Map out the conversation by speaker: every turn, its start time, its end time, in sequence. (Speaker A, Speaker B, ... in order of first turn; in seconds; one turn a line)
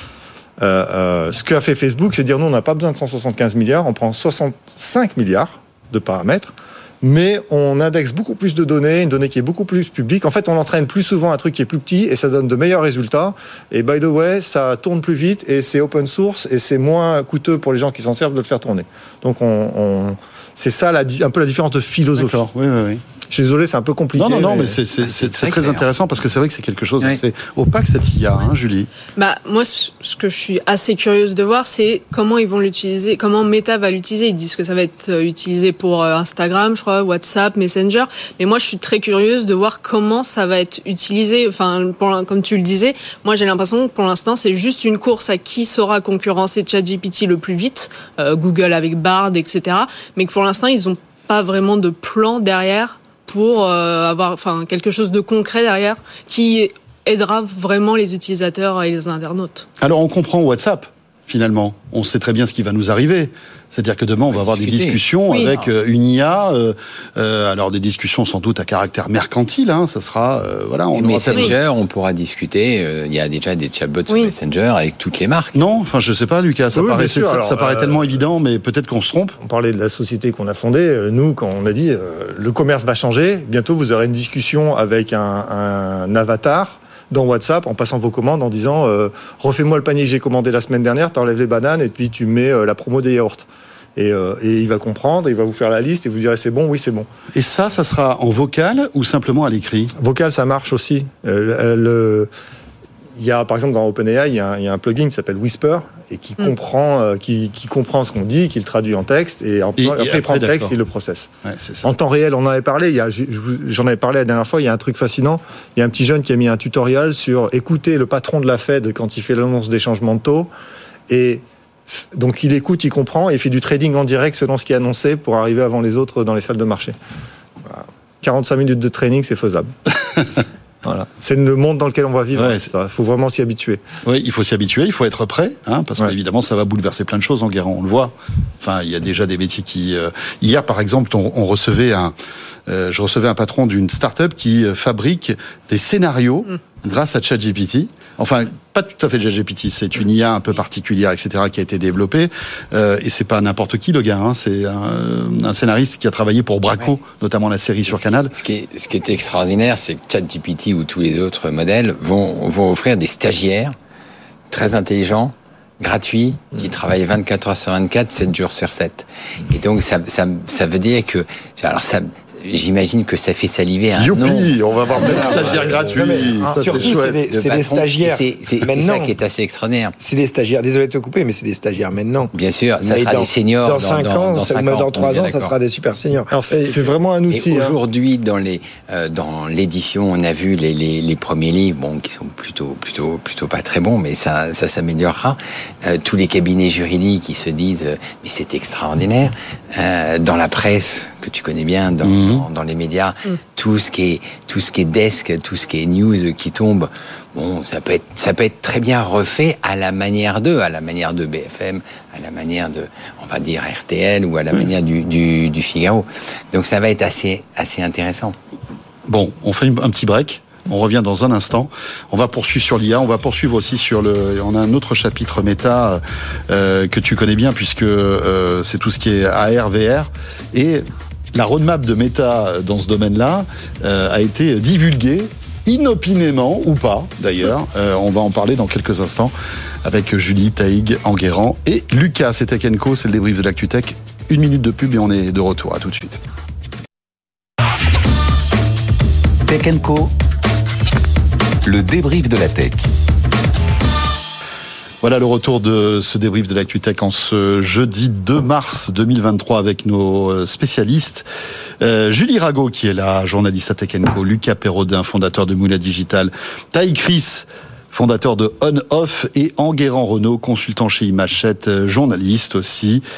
Speaker A: 0.6-22.4
Speaker B: 22.2-23.0
Speaker A: 23.3-24.8
Speaker B: 24.1-28.9
Speaker C: 24.9-25.9
Speaker D: 29.1-59.6
Speaker B: 59.8-71.6
Speaker C: 64.3-65.7
Speaker D: 65.3-65.5
Speaker C: 70.9-75.6
Speaker D: 74.1-74.3
Speaker B: 75.5-79.3
Speaker A: 76.7-78.1
Speaker A: 79.4-97.1
Speaker B: 97.3-99.9
Speaker A: 100.0-102.3
Speaker A: 103.2-111.3
Speaker B: 109.8-110.8
Speaker B: 111.4-111.9
Speaker A: 111.8-120.5
Speaker A: 121.1-127.0
Speaker A: 128.2-129.7
Speaker A: 130.8-133.8
Speaker B: 132.3-132.7
Speaker B: 134.0-142.1
Speaker B: 142.7-158.3
Speaker C: 156.7-157.0
Speaker C: 157.8-163.7
Speaker C: 164.5-175.9
Speaker B: 173.9-177.2
Speaker E: 175.0-179.1
Speaker A: 176.0-177.0
Speaker C: 177.3-179.9
Speaker E: 180.0-186.9
Speaker C: 182.3-185.5
Speaker A: 186.3-187.8
Speaker C: 187.3-218.3
Speaker B: 202.0-202.4
Speaker B: 219.1-239.3
Speaker B: 239.8-246.2
Speaker F: 249.5-250.1
Speaker F: 251.6-252.9
Speaker B: 255.0-261.2
Speaker B: 261.8-273.0